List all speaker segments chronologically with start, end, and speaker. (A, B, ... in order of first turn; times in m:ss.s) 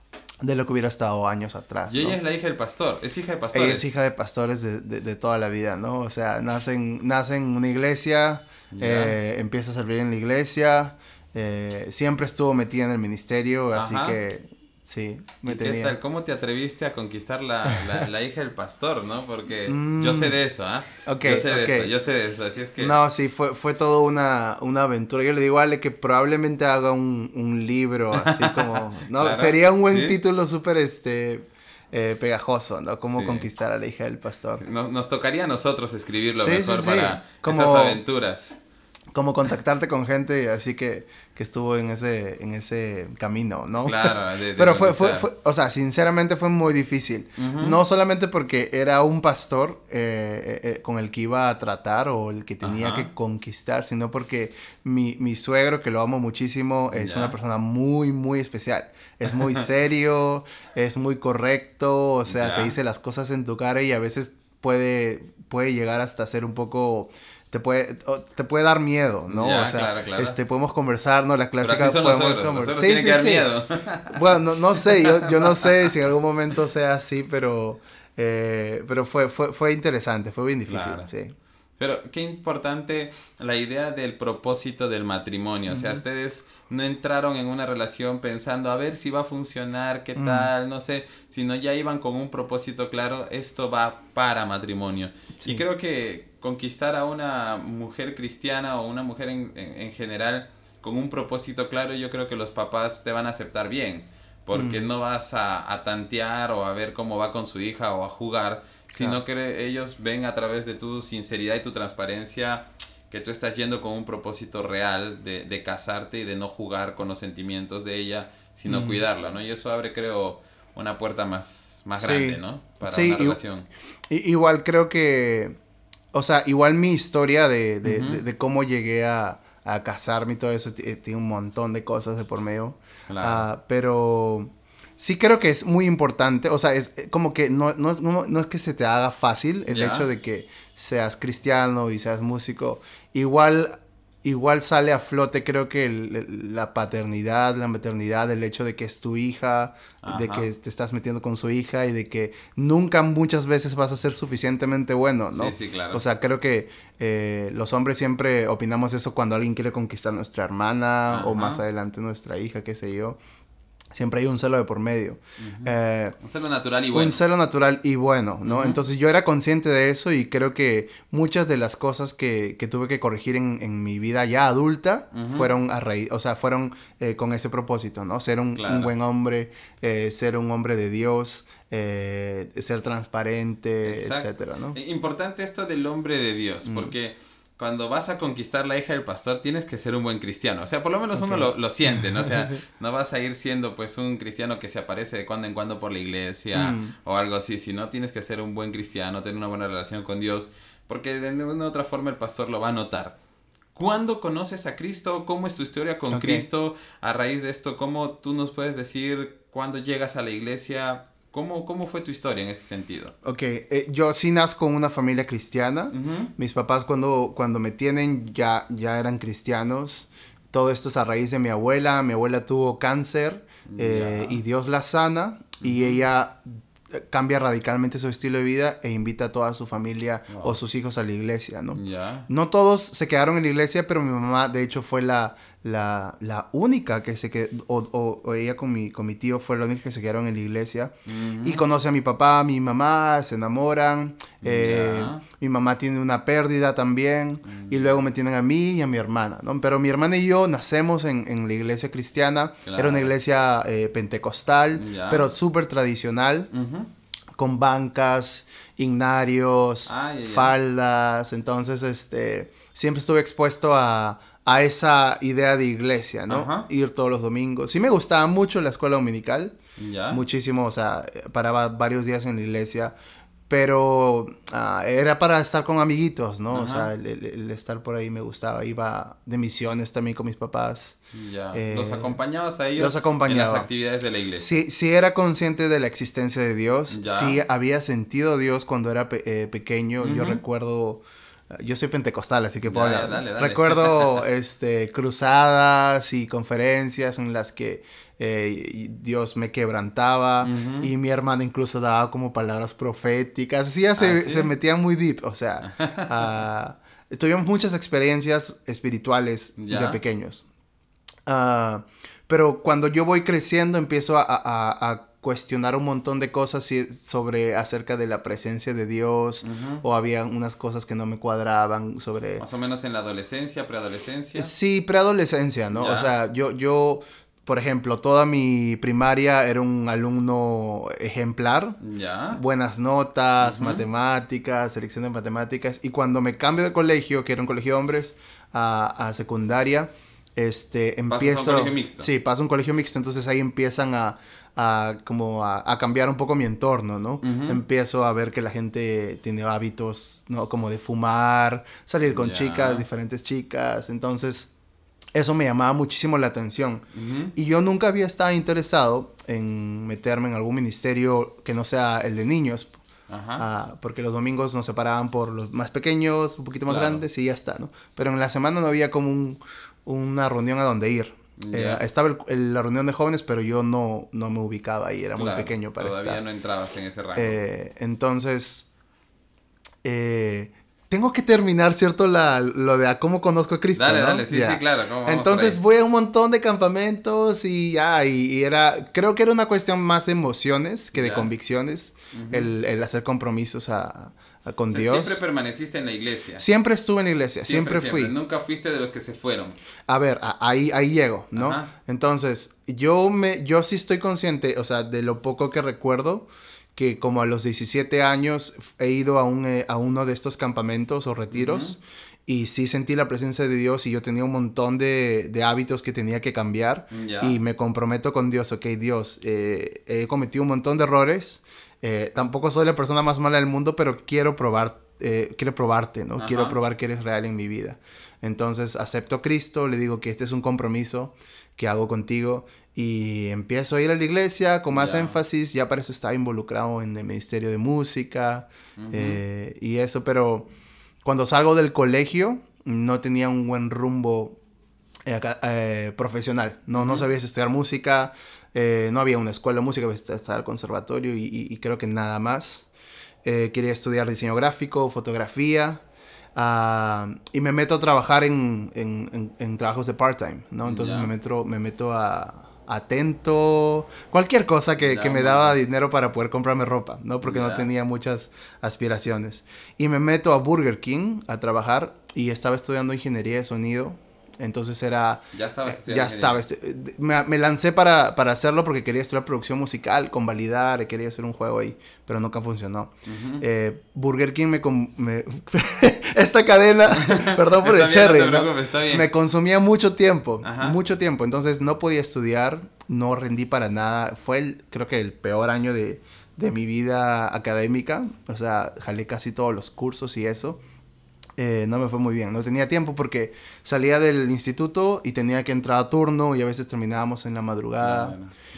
0:00.4-0:02.2 A
0:01.9-0:04.0 B
0:03.5-0:16.0 A
0:08.7-0:09.2 B
0:13.7-0:14.2 B
0:15.4-0:23.0 B
0:19.7-0:20.4 A
0:21.0-0:21.9 A
0:22.8-0:34.6 A
0:28.1-0:30.2 B
0:33.1-0:33.5 B
0:34.5-0:38.6 B
0:36.4-0:38.0 A
0:39.1-1:13.5 A
0:43.8-0:45.3 B
0:47.4-0:47.8 B
0:52.6-0:53.1 B
0:56.9-0:57.3 B
1:02.3-1:02.8 B
1:09.3-1:10.4 B
1:11.6-1:15.9 B
1:14.1-1:21.3 A
1:20.7-1:21.1 B
1:21.8-2:03.7 B
1:25.7-1:26.0 A
1:30.2-1:30.5 A
1:44.5-1:44.8 A
1:48.9-1:49.2 A
1:58.7-1:59.0 A
2:02.0-2:03.4 A
2:04.1-2:05.6 A
2:06.1-2:43.2 A
2:07.8-2:08.2 B
2:13.1-2:13.5 B
2:19.7-2:20.1 B
2:30.0-2:30.5 B
2:35.3-2:36.0 B
2:41.1-2:41.6 B
2:43.9-2:46.2 A
2:45.4-2:47.2 B
2:46.9-3:04.8 A
2:48.4-2:48.8 B
2:55.1-2:55.5 B
2:58.6-2:58.9 B
3:03.8-3:23.2 B
3:06.6-3:06.9 A
3:11.1-3:12.5 A
3:16.5-3:16.9 A
3:23.7-3:33.1 B
3:26.1-3:26.4 A
3:33.2-4:16.5 A
3:35.9-3:36.3 B
3:43.6-3:44.4 B
3:45.6-3:46.0 B
3:50.3-3:50.6 B
3:51.7-3:52.3 B
4:01.0-4:01.6 B
4:04.4-4:05.2 B
4:07.4-4:08.0 B
4:12.6-4:13.1 B
4:14.7-4:15.3 B
4:16.5-4:16.9 B
4:17.3-4:29.6 A
4:19.9-4:20.6 B
4:26.3-4:26.7 B
4:29.8-4:30.2 B
4:30.1-4:32.9 A
4:33.5-4:41.0 A
4:36.5-4:36.9 B
4:41.1-4:44.5 B
4:41.5-4:42.2 A
4:42.8-4:43.7 A
4:44.4-5:10.4 A
4:46.9-4:47.4 B
4:50.0-4:50.4 B
4:52.6-4:54.2 B
5:00.4-5:00.9 B
5:04.0-5:04.5 B
5:05.6-5:06.2 B
5:09.6-5:10.0 B
5:11.2-5:22.4 A
5:19.4-5:19.8 B
5:22.4-5:24.5 B
5:24.3-5:31.8 A
5:25.7-5:26.1 B
5:31.8-5:32.4 B
5:32.3-5:54.5 A
5:33.4-5:33.8 B
5:41.1-5:42.1 B
5:47.2-5:47.6 B
5:52.0-5:52.8 B
5:55.1-6:02.7 A
5:56.9-5:57.3 B
6:03.1-6:03.4 B
6:03.4-6:16.2 A
6:06.7-6:07.0 B
6:11.4-6:11.8 B
6:15.2-6:17.4 B
6:17.2-6:18.7 A
6:19.8-6:35.2 A
6:23.7-6:25.6 B
6:30.9-6:31.3 B
6:32.1-6:32.5 B
6:34.7-6:36.4 B
6:36.4-6:38.1 A
6:37.4-6:39.6 B
6:39.9-7:20.5 A
6:41.3-6:41.7 B
6:51.3-6:51.8 B
6:56.9-6:57.4 B
7:06.2-7:06.6 B
7:14.7-7:15.2 B
7:18.8-7:19.2 B
7:21.0-7:24.4 A
7:25.0-7:32.6 A
7:26.7-7:27.0 B
7:33.2-7:35.8 A
7:36.3-8:20.6 A
7:40.6-7:41.1 B
7:44.8-7:45.6 B
7:47.2-7:47.7 B
7:55.3-7:56.4 B
8:03.0-8:03.4 B
8:06.9-8:09.1 B
8:10.4-8:10.8 B
8:21.4-8:28.2 A
8:27.8-8:28.3 B